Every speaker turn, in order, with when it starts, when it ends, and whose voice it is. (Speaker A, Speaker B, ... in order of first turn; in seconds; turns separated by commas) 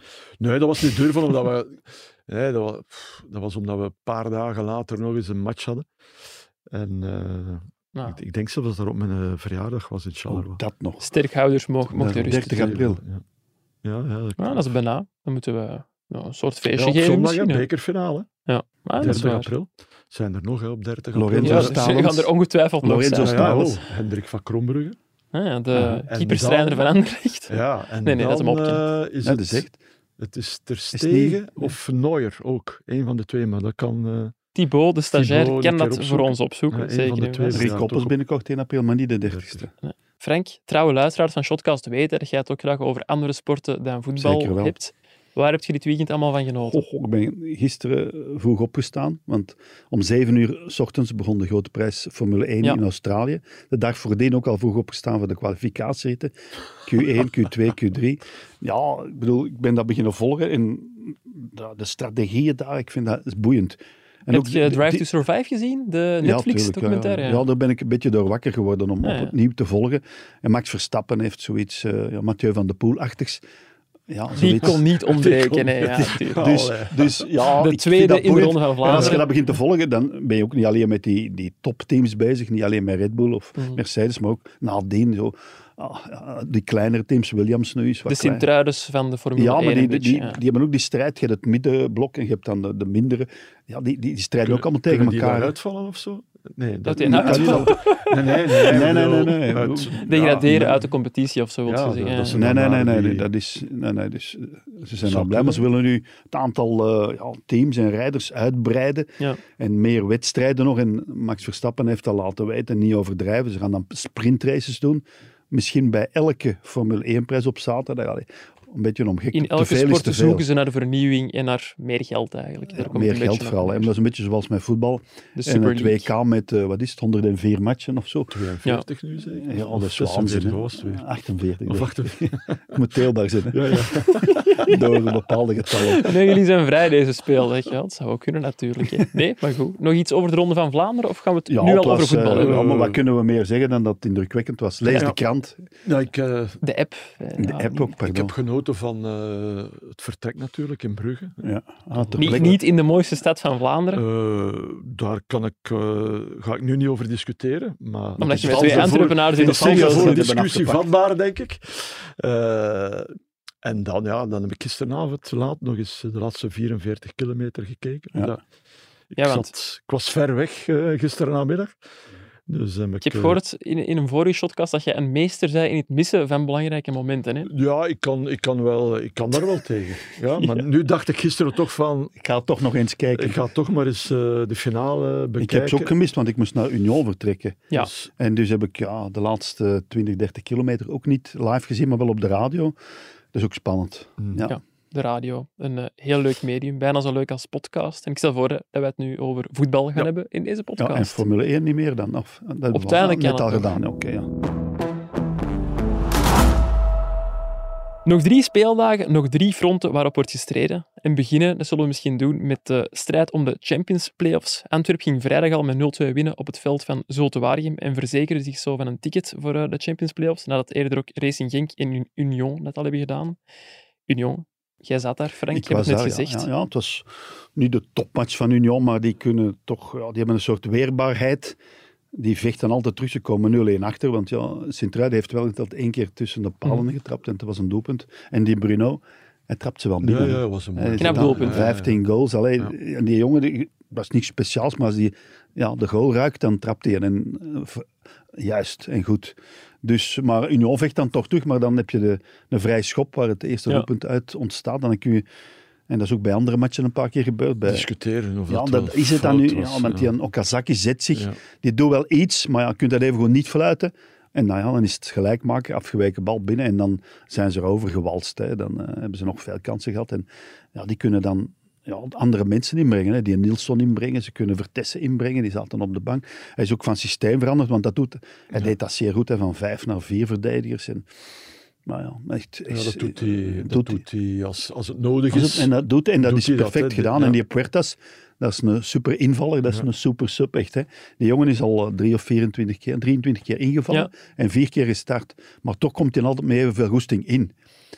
Speaker A: 0.4-5.8, Speaker A: 6.7-10.6, Speaker B: 10.3-11.1, Speaker C: 11.0-12.8, Speaker B: 11.9-13.0, Speaker A: 12.3-13.2, Speaker A: 13.8-14.7, Speaker C: 14.4-17.6, Speaker A: 16.7-18.3, Speaker C: 18.4-19.5, Speaker A: 19.0-21.8, Speaker B: 21.1-22.3, Speaker C: 21.4-23.6, Speaker B: 22.8-23.8, Speaker A: 23.2-25.0, Speaker C: 25.3-28.8, Speaker A: 25.7-26.9, Speaker A: 27.5-29.6, Speaker B: 29.2-29.8, Speaker A: 30.2-34.3, Speaker B: 30.9-31.7, Speaker C: 34.5-37.7, Speaker A: 35.1-38.1, Speaker B: 37.5-39.7, Speaker A: 39.3-39.7, Speaker C: 39.8-46.8, Speaker B: 44.1-44.8, Speaker B: 46.6-65.0, Speaker C: 64.3-67.4, Speaker B: 66.2-73.4, Speaker C: 69.0-69.3, Speaker B: 74.1-74.8, Speaker C: 74.3-76.4, Speaker A: 74.6-77.2, Speaker B: 75.8-88.5, Speaker C: 77.6-79.3, Speaker A: 78.9-79.2, Speaker C: 88.1-90.4, Speaker B: 89.3-95.5, Speaker A: 94.4-100.5, Speaker C: 96.8-98.6, Speaker B: 97.0-97.8, Speaker B: 98.6-100.8, Speaker C: 100.0-102.4, Speaker A: 101.7-103.3, Speaker B: 102.2-120.5, Speaker A: 105.0-105.7, Speaker C: 119.3-123.9, Speaker B: 122.7-128.4, Speaker C: 125.3-126.1, Speaker A: 128.3-131.1, Speaker B: 129.2-133.9, Speaker A: 131.6-132.8, Speaker A: 133.5-134.7, Speaker C: 134.2-134.7, Speaker B: 134.5-136.1, Speaker C: 136.0-142.6, Speaker B: 141.5-145.7, Speaker A: 142.3-143.0, Speaker A: 144.8-145.2, Speaker A: 145.8-146.6, Speaker C: 146.6-147.8, Speaker B: 147.4-148.3, Speaker A: 148.0-151.4, Speaker B: 151.4-152.6, Speaker A: 151.9-152.6, Speaker C: 152.2-154.0, Speaker A: 153.9-168.4, Speaker C: 158.2-160.2, Speaker B: 158.2-160.9, Speaker A: 169.1-171.8, Speaker C: 169.2-169.5, Speaker A: 172.5-173.4, Speaker C: 173.0-177.5, Speaker A: 177.4-182.2, Speaker B: 182.2-183.4, Speaker A: 183.1-185.9, Speaker B: 185.4-192.8, Speaker A: 187.8-188.1, Speaker B: 193.3-194.6, Speaker A: 194.2-194.4, Speaker C: 194.4-201.2, Speaker B: 200.8-204.3, Speaker C: 202.7-203.6, Speaker C: 208.0-223.4, Speaker C: 224.1-226.5, Speaker B: 225.5-231.6, Speaker B: 232.1-255.2, Speaker A: 240.0-242.0, Speaker C: 241.0-241.7, Speaker B: 255.9-257.9, Speaker A: 257.6-260.1, Speaker B: 258.5-281.1, Speaker B: 281.9-284.0, Speaker A: 282.7-287.4, Speaker B: 285.3-297.5